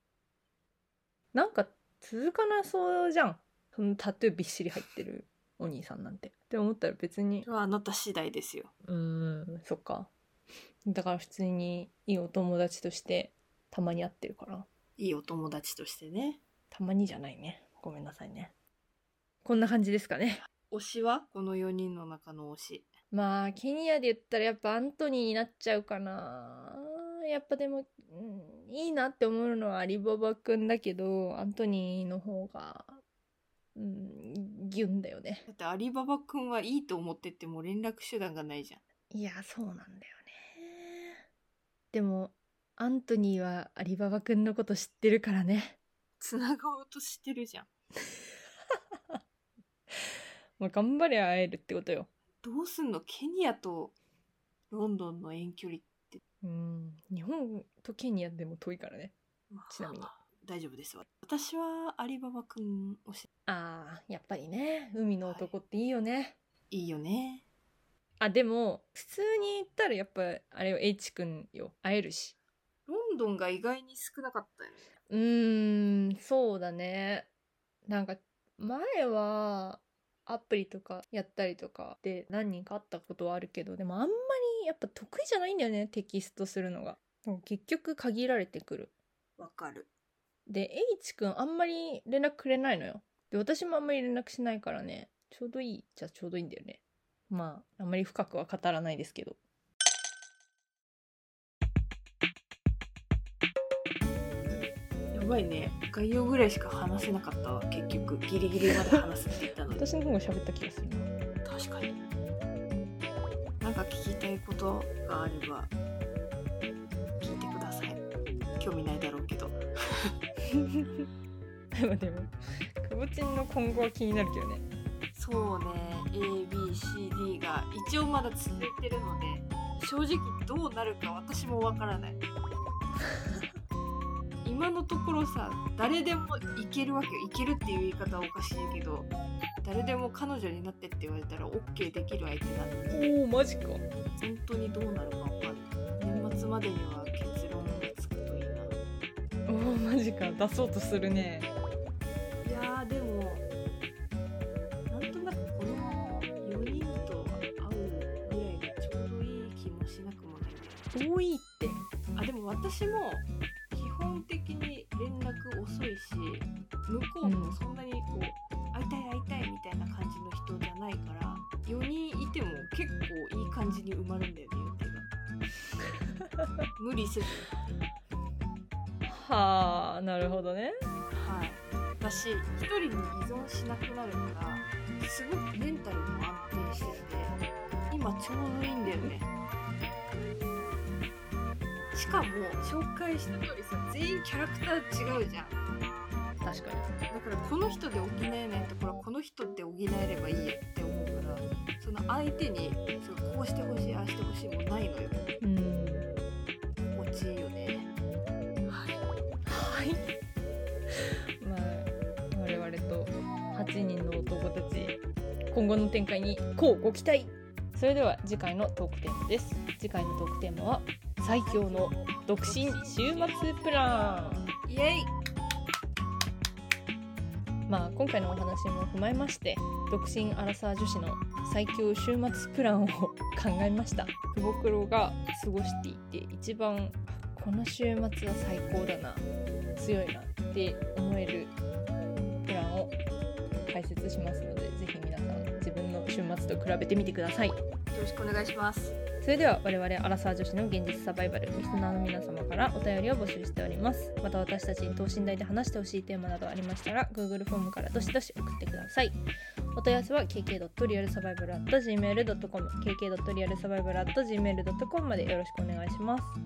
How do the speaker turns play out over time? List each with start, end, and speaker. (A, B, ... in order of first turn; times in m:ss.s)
0:01.3-0:07.5 A
0:07.4-0:08.7 B
0:08.8-0:10.1 A
0:10.9-0:14.7 A
0:15.0-0:16.4 B
0:16.7-0:18.5 A
0:19.4-0:20.4 A
0:20.7-0:22.9 B
0:23.1-0:33.0 A
0:33.8-0:35.5 A
0:35.5-0:38.8 B
0:39.1-0:41.2 A
0:41.9-0:45.8 A
0:46.2-0:47.7 B
0:50.6-0:52.1 A
0:52.4-0:53.9 B
0:54.7-0:56.2 B
0:56.4-0:59.1 A
0:59.5-1:03.2 B
0:59.7-1:00.1 A
1:03.4-1:06.4 A
1:05.2-1:05.5 B
1:06.7-1:07.4 B
1:08.2-1:12.4 A
1:12.9-1:14.9 B
1:15.1-1:17.3 A
1:17.9-1:28.9 A
1:29.4-1:29.9 B
1:30.5-1:39.4 A
1:45.1-1:49.9 B
1:49.7-1:51.1 A
1:51.4-1:51.9 B
1:53.6-1:55.7 B
1:57.2-1:58.0 B
1:58.6-2:00.1 B
2:00.5-2:01.1 A
2:01.7-2:04.6 A
2:05.1-2:12.2 B
2:14.4-2:19.1 B
2:19.6-2:22.9 B
2:22.9-2:23.8 A
2:24.2-2:28.7 B
2:29.5-2:31.5 A
2:32.4-2:33.4 B
2:34.9-2:40.8 B
2:40.9-2:41.8 A
2:42.2-2:55.1 B
2:47.2-2:47.6 A
2:56.8-2:57.5 B
2:59.0-3:00.7 A
3:01.1-3:09.3 B
3:11.9-3:15.6 B
3:16.4-3:16.9 A
3:17.1-3:25.2 B
3:25.4-3:26.1 A
3:26.9-3:27.9 B
3:28.7-3:29.0 B
3:29.4-3:30.1 A
3:30.9-3:35.0 A
3:35.5-3:44.5 A
3:41.4-3:45.1 B
3:47.7-4:01.5 A
4:02.4-4:02.9 A
4:03.6-4:07.6 A
4:07.9-4:09.0 B
4:09.2-4:19.2 A
4:19.7-4:26.4 A